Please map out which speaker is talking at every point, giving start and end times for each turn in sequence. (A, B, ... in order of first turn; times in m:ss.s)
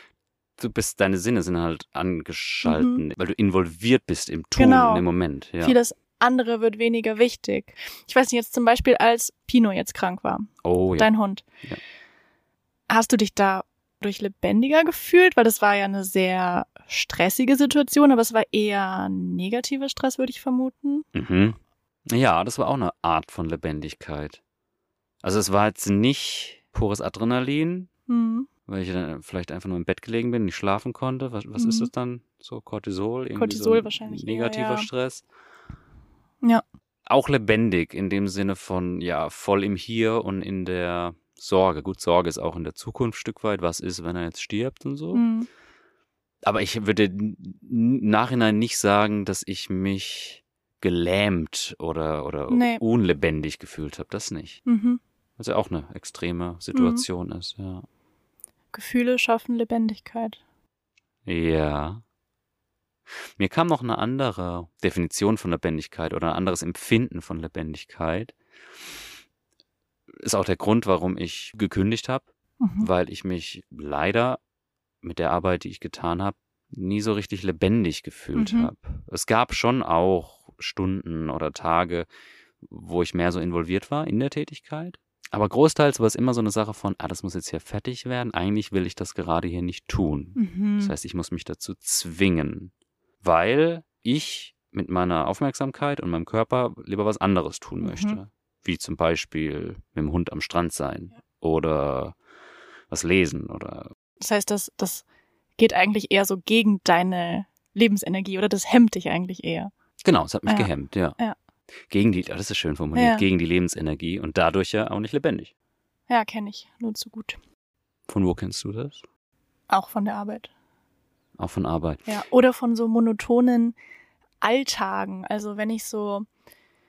0:00.6-0:05.8 A
0:02.6-0:03.0 B
0:04.6-0:05.0 B
0:05.6-0:11.4 B
0:10.6-0:11.1 A
0:12.9-0:21.0 B
0:21.1-0:21.6 A
0:22.1-0:24.4 A
0:25.2-0:27.9 A
0:28.1-0:28.5 B
0:28.7-0:35.2 A
0:31.6-0:31.9 B
0:33.3-0:34.9 B
0:37.1-0:45.2 A
0:45.1-0:45.5 B
0:46.4-0:54.6 A
0:52.5-0:52.8 B
0:54.6-0:55.0 B
0:55.4-0:57.8 A
0:56.7-0:57.0 B
0:58.7-1:00.4 B
1:01.2-1:02.0 A
1:03.4-1:08.4 A
1:10.2-1:14.4 A
1:12.6-1:12.9 B
1:15.0-1:22.1 A
1:18.4-1:18.7 B
1:22.6-1:42.2 A
1:30.4-1:30.9 B
1:37.8-1:38.2 B
1:42.9-1:43.9 A
1:44.2-1:45.0 B
1:45.6-1:49.7 B
1:50.0-1:51.2 A
1:50.4-1:51.4 B
1:51.9-1:55.5 A
1:52.9-1:53.2 B
1:56.1-1:57.4 B
1:58.1-1:59.0 A
1:59.7-2:00.5 B
2:01.4-2:02.1 A
2:02.1-2:03.8 B
2:04.4-2:06.3 B